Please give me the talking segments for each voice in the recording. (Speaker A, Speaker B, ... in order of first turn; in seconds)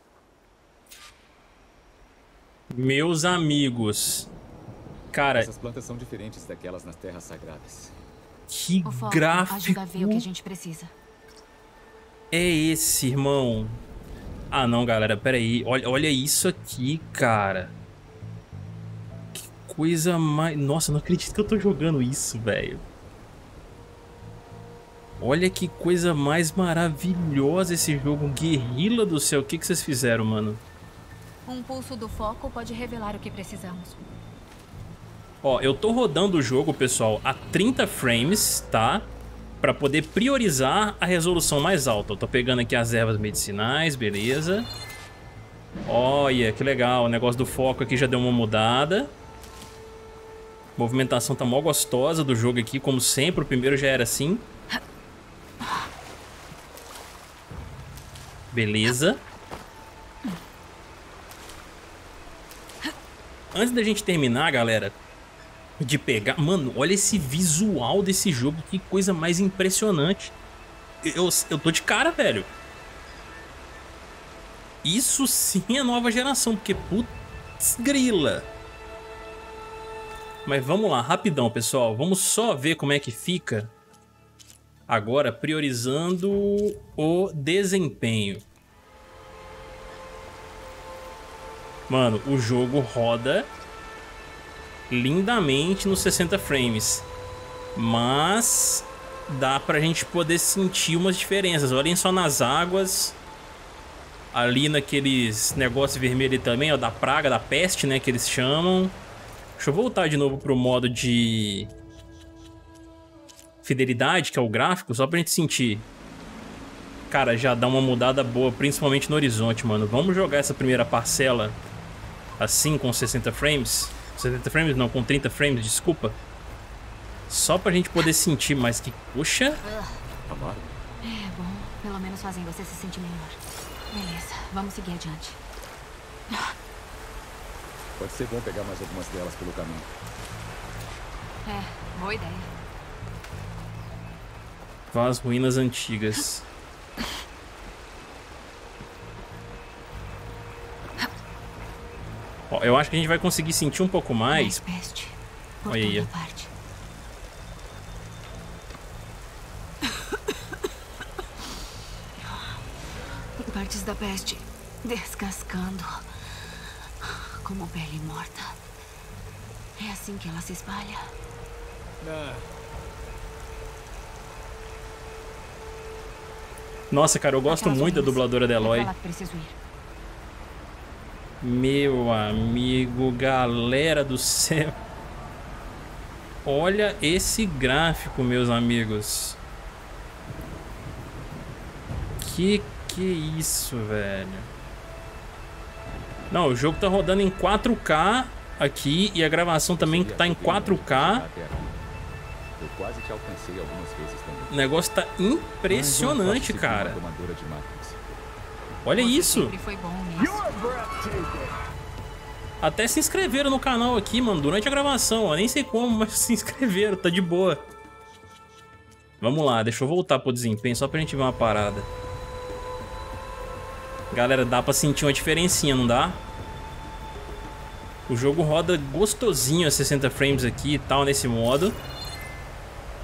Speaker A: 2.7-4.3, 5.1-5.5, 8.5-10.2, 12.3-13.8, 14.5-17.7, 19.3-22.8, 25.2-30.6, 35.4-39.1, 39.6-44.7, 45.9-49.1, 50.8-54.5, 58.5-59.2, 63.5-64.9, 65.8-70.3, 71.0-72.5, 74.8-78.5, 80.5-83.7, 84.9-88.4, 91.9-93.5, 94.9-97.1, 97.7-103.2, 104.3-109.0, 109.6-111.7, 113.6-115.8, 117.1-121.6, 122.4-126.2, 127.3-129.6, 144.9-146.4, 152.5-154.6, 155.7-156.1, 176.9-178.9, 181.4-184.7, 186.4-189.4, 192.2-194.5, 196.3-201.2, 204.5-207.0, 208.8-209.5, 212.6-217.6, 219.2-221.9, 224.1-226.2, 228.1-231.8
Speaker B: 5.3-7.9, 130.3-130.8, 138.0-139.9, 172.0-172.5, 199.8-201.8, 202.6-204.5, 205.7-208.2, 210.2-211.5
Speaker C: 8.8-10.9, 31.4-34.0, 129.6-130.0, 131.0-133.4, 133.9-135.4, 141.4-142.5, 154.3-156.5, 162.2-162.6, 163.4-165.9, 167.0-168.6, 169.8-171.1, 177.4-179.6, 209.0-210.4